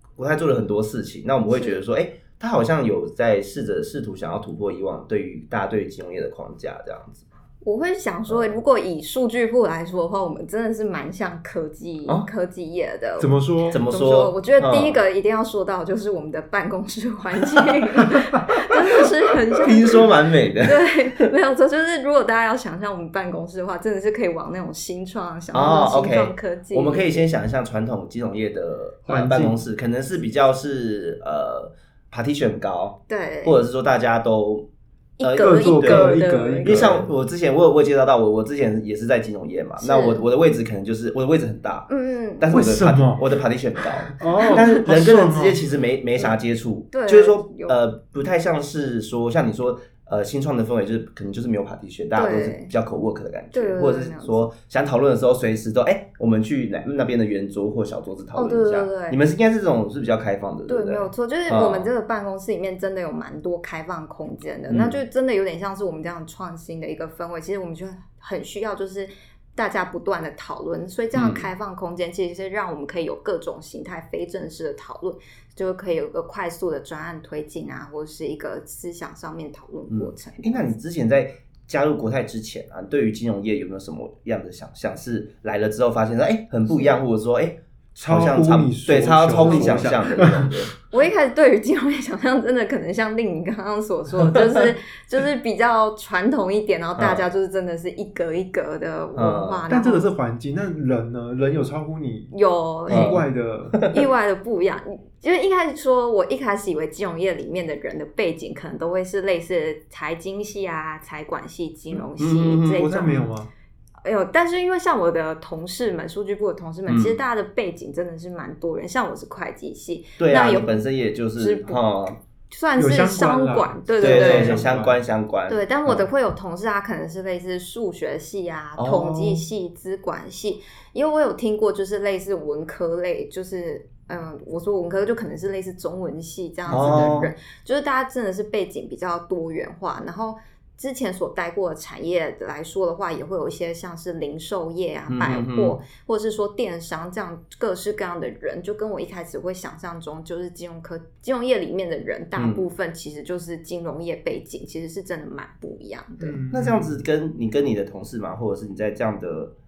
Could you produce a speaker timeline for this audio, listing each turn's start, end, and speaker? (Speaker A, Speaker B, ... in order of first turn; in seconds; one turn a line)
Speaker A: 0.2-7.2
Speaker B: 1.5-1.8
Speaker B: 7.6-27.2
Speaker A: 8.3-8.6
Speaker C: 13.2-13.8
Speaker A: 13.7-15.0
Speaker A: 19.6-21.2
Speaker A: 25.5-34.6
Speaker C: 29.1-29.6
Speaker B: 33.1-33.6
Speaker B: 35.2-37.0
Speaker A: 35.2-41.9
Speaker C: 35.4-37.1
Speaker B: 39.8-40.2
Speaker B: 41.9-42.5
Speaker A: 42.4-61.9
Speaker C: 42.5-43.3
Speaker C: 44.1-45.6
Speaker B: 46.9-47.8
Speaker B: 52.1-52.7
Speaker B: 53.5-54.5
Speaker B: 58.3-59.2
Speaker B: 60.7-80.7
Speaker A: 64.7-65.0
Speaker A: 71.1-71.5
Speaker A: 79.9-90.7
Speaker B: 86.7-87.0
Speaker C: 87.9-90.6
Speaker B: 89.4-90.0
Speaker B: 90.9-100.1
Speaker A: 97.0-97.2
Speaker A: 99.1-99.7
Speaker C: 99.7-102.3
Speaker B: 102.3-103.2
Speaker C: 102.9-103.9
Speaker A: 102.9-103.2
Speaker A: 103.7-104.0
Speaker B: 103.9-113.3
Speaker A: 112.2-113.2
Speaker C: 112.7-113.5
Speaker B: 114.0-120.7
Speaker A: 116.9-117.2
Speaker A: 120.2-122.2
Speaker B: 121.4-121.8
Speaker B: 122.5-124.6
Speaker C: 122.8-125.0
Speaker A: 124.0-126.1
Speaker B: 125.5-156.4
Speaker A: 128.8-129.4
Speaker A: 136.7-137.3
Speaker A: 145.1-145.8
Speaker A: 152.4-152.7
Speaker C: 156.2-157.0
Speaker A: 156.5-159.5